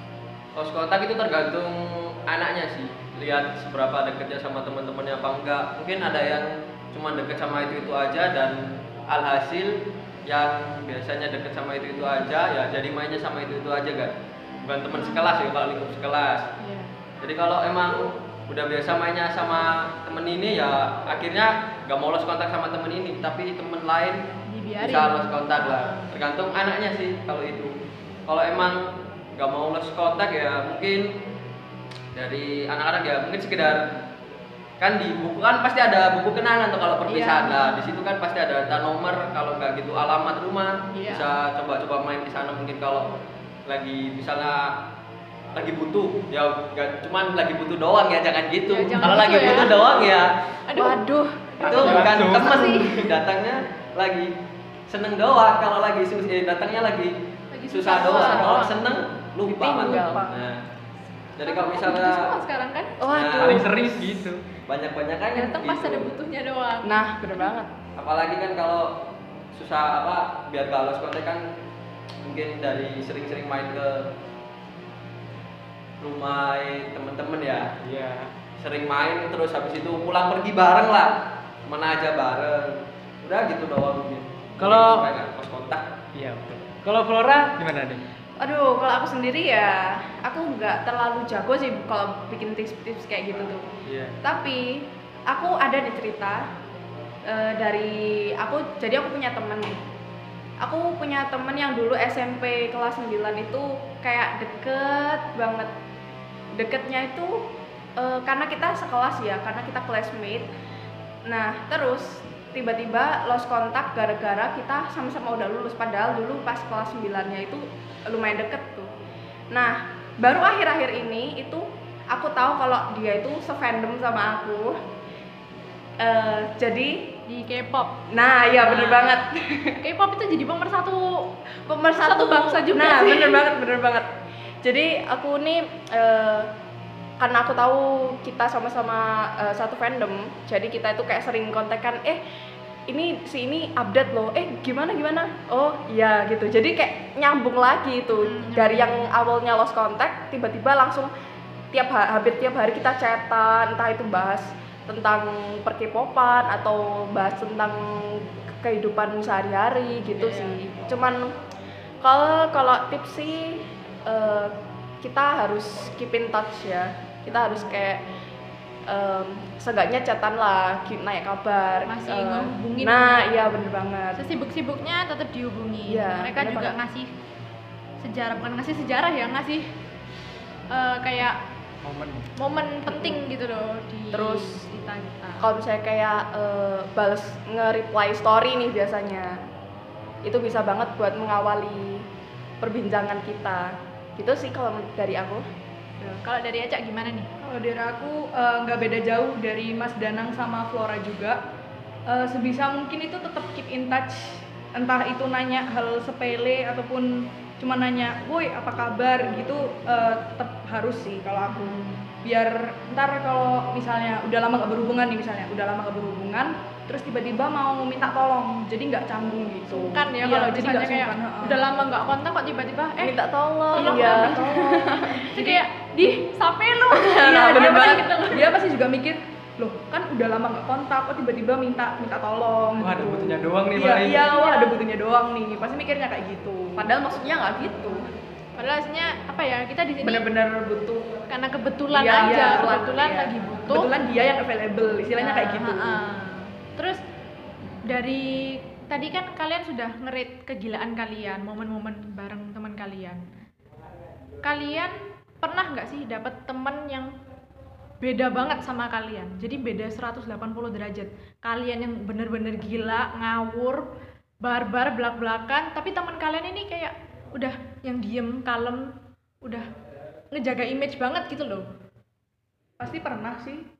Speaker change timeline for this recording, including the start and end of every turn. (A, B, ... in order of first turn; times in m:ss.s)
0:00.6-0:16.5 A
0:14.9-0:15.3 B
0:16.6-0:16.9 B
0:17.2-0:24.2 A
0:24.5-0:26.1 B
0:24.8-0:27.7 A
0:28.3-0:31.1 A
0:32.1-0:33.9 A
0:34.8-0:43.1 A
0:37.1-0:37.8 B
0:40.9-0:41.3 B
0:43.7-0:44.8 A
0:45.6-0:50.3 A
0:48.7-0:50.1 B
0:50.7-0:51.0 B
0:50.8-0:52.0 C
0:51.6-0:53.0 B
0:51.6-0:52.7 D
0:51.6-0:54.3 A
0:54.9-0:57.2 A
0:57.5-0:58.8 B
0:57.7-1:00.6 A
0:57.9-0:58.8 C
0:59.5-1:00.4 C
1:01.4-1:02.3 A
1:01.4-1:03.0 B
1:03.0-1:03.8 C
1:03.1-1:03.7 A
1:03.4-1:04.4 D
1:04.7-1:06.1 A
1:05.3-1:07.5 B
1:06.8-1:07.7 C
1:08.0-1:09.0 A
1:09.5-1:11.5 A
1:12.2-1:14.1 A
1:16.0-1:17.7 A
1:17.8-1:18.3 D
1:18.6-1:25.8 A
1:24.6-1:25.1 D
1:26.2-1:28.0 D
1:28.4-1:33.6 C
1:33.9-1:34.2 D
1:34.2-1:36.5 C
1:37.3-1:39.8 C
1:40.6-1:45.7 C
1:46.6-1:47.5 C
1:48.0-1:50.5 C
1:51.3-1:58.9 C
1:59.5-2:04.8 C
2:06.0-2:07.1 C
2:07.3-2:08.0 B
2:08.1-2:09.8 C
2:08.6-2:09.2 B
2:09.8-2:11.3 B
2:11.7-2:14.1 C
2:12.0-2:13.5 B
2:14.6-2:16.5 C
2:17.2-2:22.2 C
2:22.9-2:31.1 C
2:28.2-2:29.1 B
2:31.7-2:41.4 C
2:40.1-2:40.7 B
2:42.0-2:48.0 C
2:48.9-2:54.2 C
2:51.9-2:53.6 B
2:54.2-2:57.1 B
2:55.9-2:56.8 C
2:58.0-2:59.7 B
3:00.7-3:01.4 B
3:01.8-3:02.3 D
3:02.4-3:05.5 B
3:02.9-3:03.2 C
3:04.1-3:04.7 C
3:05.4-3:09.4 C
3:10.2-3:12.0 C
3:12.6-3:15.5 C
3:16.2-3:17.3 B
3:17.4-3:21.4 E
3:22.1-3:41.6 E
3:31.5-3:32.0 B
3:39.7-3:43.2 B
3:43.0-3:45.6 C
3:43.7-3:48.6 B
3:43.8-3:44.8 E
3:47.0-3:48.2 C
3:47.2-3:56.8 E
3:52.8-3:54.3 D
3:54.3-3:54.8 B
3:56.8-3:58.1 C
3:58.6-4:00.3 B
4:00.0-4:01.1 C
4:01.3-4:03.9 B
4:01.9-4:03.3 C
4:02.2-4:02.8 E
4:03.7-4:06.0 E
4:05.2-4:07.0 B
4:07.8-4:13.2 B
4:14.4-4:17.1 B
4:18.0-4:23.9 B
4:24.4-4:29.7 B
4:30.3-4:31.7 B
4:32.8-4:33.6 E